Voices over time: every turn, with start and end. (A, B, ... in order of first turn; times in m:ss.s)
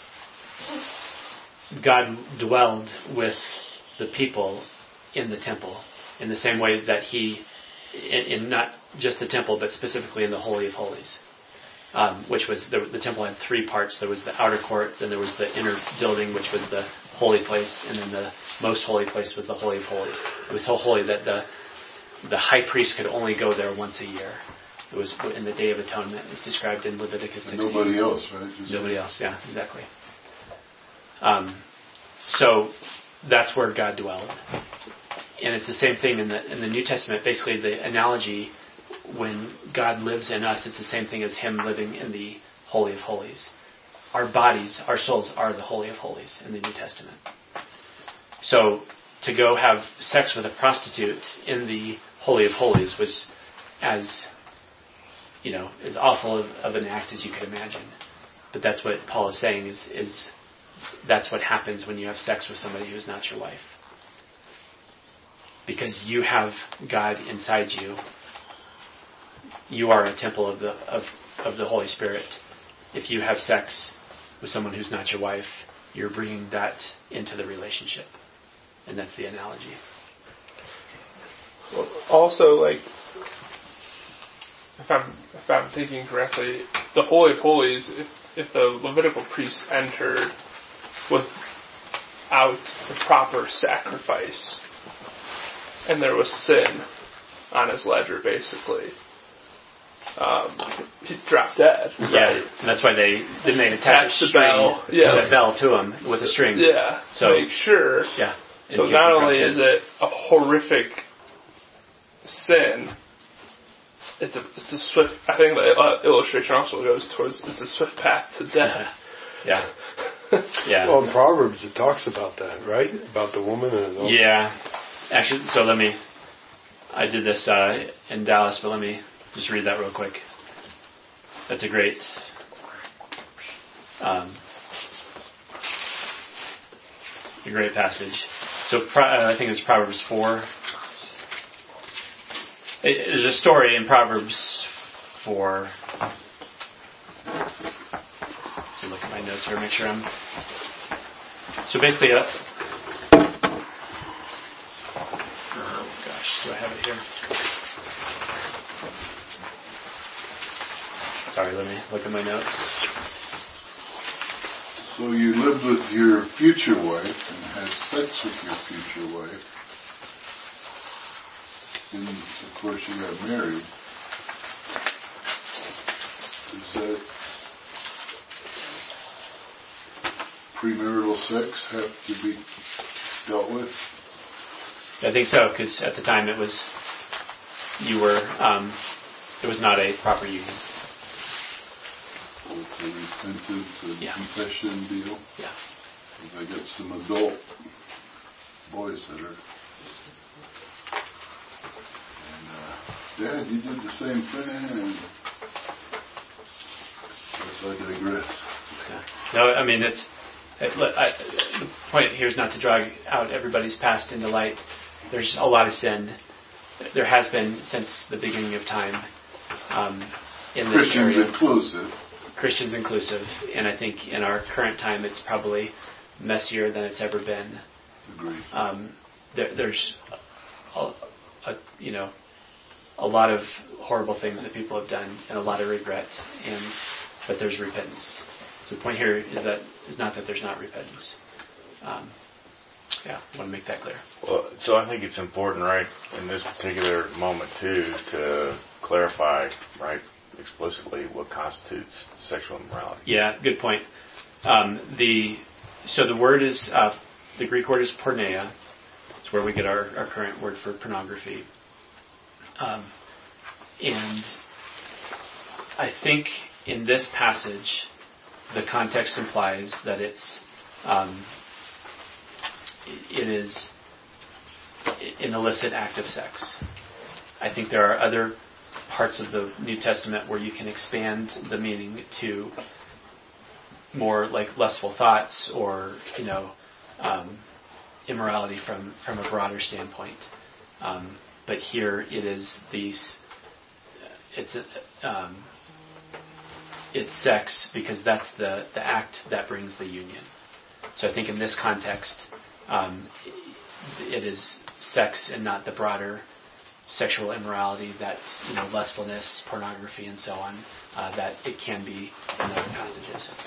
0:01.7-0:11.2 A
0:11.9-0:21.4 A
0:22.2-0:28.0 A
0:27.4-0:29.0 B
0:28.7-0:29.9 A
0:31.2-0:31.6 A
0:32.3-0:34.4 A
0:35.4-0:38.5 A
0:39.0-0:43.5 A
0:44.1-0:47.2 A
0:48.4-0:53.3 A
0:53.8-0:54.3 A
0:55.4-0:57.9 A
0:58.5-1:00.3 A
1:01.0-1:03.7 A
1:05.6-1:08.0 A
1:09.7-1:12.4 A
1:12.9-1:18.1 A
1:18.9-1:19.8 A
1:21.7-1:22.8 C
1:24.8-1:30.4 C
1:31.1-1:31.4 C
1:32.3-1:34.6 C
1:35.8-1:36.9 C
1:37.5-1:38.9 C
1:40.2-1:42.5 C
1:42.0-1:49.6 A
1:43.8-1:45.5 C
1:46.0-1:51.1 C
1:52.2-1:52.9 C
1:54.2-1:58.9 C
1:58.6-1:58.9 A
1:59.4-1:59.7 A
2:00.6-2:01.0 A
2:00.8-2:04.2 D
2:04.0-2:06.0 A
2:06.9-2:10.2 A
2:11.5-2:12.3 A
2:14.0-2:14.4 A
2:17.4-2:20.5 A
2:22.8-2:25.8 A
2:28.8-2:30.1 A
2:31.6-2:32.4 A
2:35.6-2:37.0 A
2:41.3-2:42.8 A
2:44.8-2:49.4 B
2:51.9-2:53.7 B
2:56.5-2:57.0 B
3:00.5-3:02.4 B
3:03.2-3:03.9 B
3:05.0-3:06.7 A
3:07.8-3:08.8 A
3:09.4-3:10.6 A
3:12.4-3:15.3 B
3:16.1-3:17.7 B
3:18.6-3:19.4 B
3:22.2-3:25.1 B
3:27.4-3:28.7 B
3:28.8-3:36.2 A
3:36.8-3:39.1 A
3:39.7-3:41.4 A
3:40.6-3:41.9 B
3:42.4-3:47.6 A
3:48.1-3:48.4 B
3:48.5-3:50.1 A
3:50.7-3:52.1 A
3:53.0-4:01.2 A
4:01.8-4:02.1 A
4:03.0-4:04.0 A
4:04.2-4:13.1 E
4:13.0-4:13.9 A
4:14.4-4:18.5 A
4:19.2-4:21.5 A
4:22.6-4:22.9 A
4:23.8-4:24.4 A
4:25.8-4:27.9 A
4:28.5-4:31.3 A
4:32.9-4:33.7 A
4:35.0-4:36.6 A
4:37.4-4:38.4 A
4:38.9-4:42.6 A
4:43.9-4:47.4 A
4:48.1-4:50.3 A
4:50.8-4:53.2 A
4:54.3-4:55.5 A
4:56.9-5:00.3 A
5:01.0-5:06.3 A
5:06.9-5:13.3 A